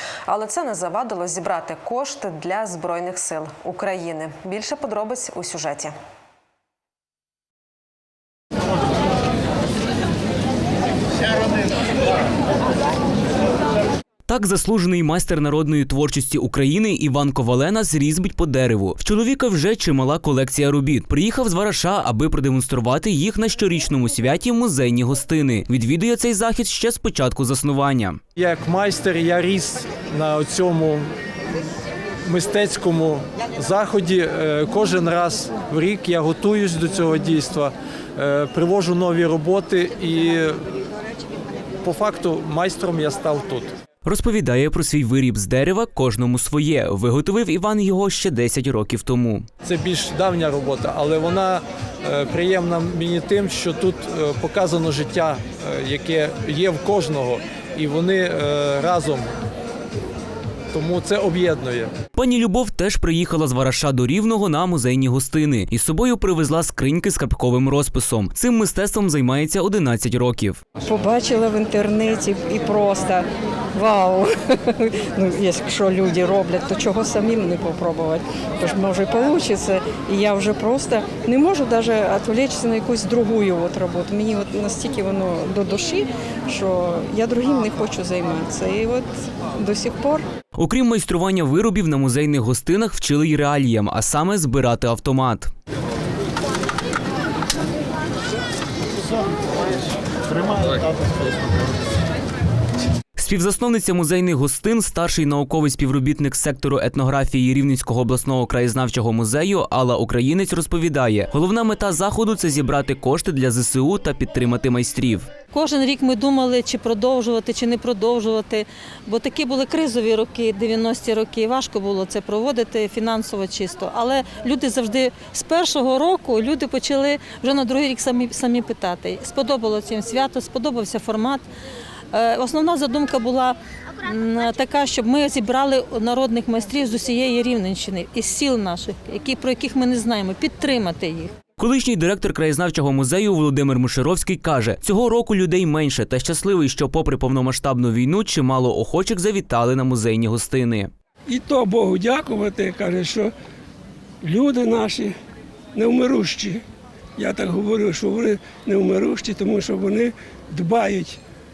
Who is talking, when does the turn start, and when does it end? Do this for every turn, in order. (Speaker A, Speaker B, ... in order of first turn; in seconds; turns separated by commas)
Speaker A: 0.3-5.9, Speaker B: 14.3-28.2, Speaker C: 28.4-31.0, Speaker C: 32.2-40.6, Speaker C: 41.8-43.7, Speaker B: 44.0-49.5, Speaker C: 49.6-59.3, Speaker C: 60.7-61.9, Speaker B: 62.1-70.6, Speaker D: 70.8-90.2, Speaker B: 90.5-95.5, Speaker B: 103.2-115.3, Speaker E: 115.5-131.4, Speaker E: 132.1-141.3, Speaker B: 141.6-150.9, Speaker F: 151.3-153.3, Speaker F: 154.2-155.1, Speaker F: 155.7-156.6, Speaker F: 157.2-161.2